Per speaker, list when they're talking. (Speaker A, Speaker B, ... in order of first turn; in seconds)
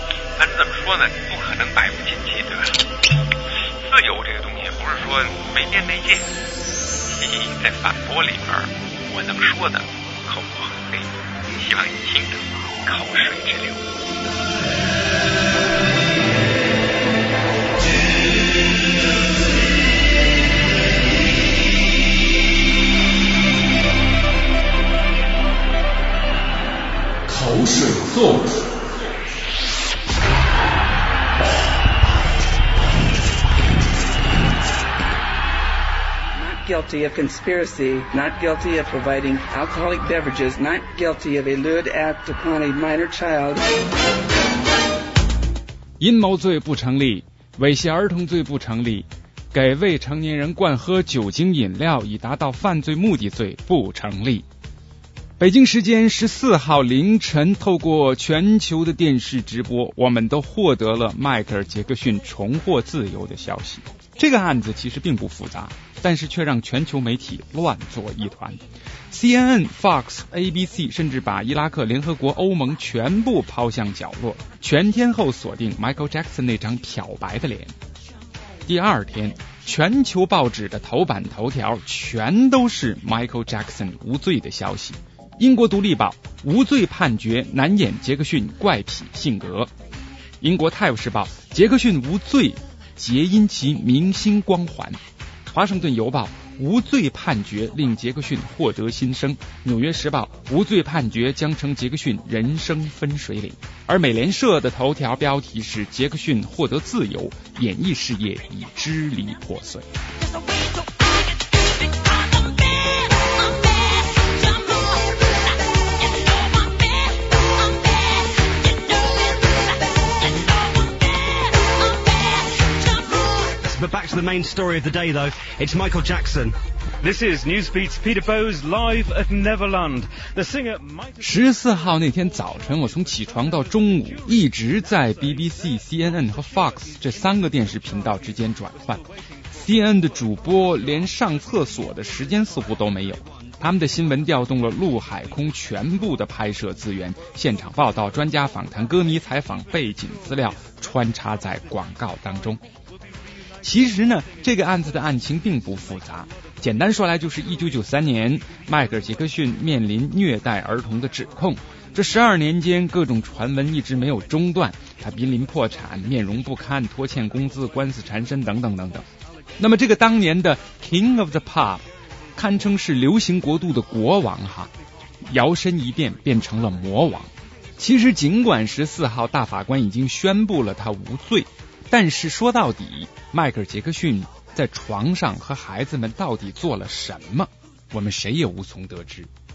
Speaker A: 0.3-2.9, 3.7-6.3, 7.1-13.8
Speaker B: 27.3-28.7, 46.0-54.5, 55.4-77.7, 78.7-89.7, 90.4-95.0, 95.5-109.8, 131.2-152.6, 153.6-169.0, 169.6-171.8, 172.3-174.7, 175.3-189.3
Speaker C: 36.3-43.7
Speaker D: 123.4-126.5, 129.9-130.6
Speaker E: 127.0-131.0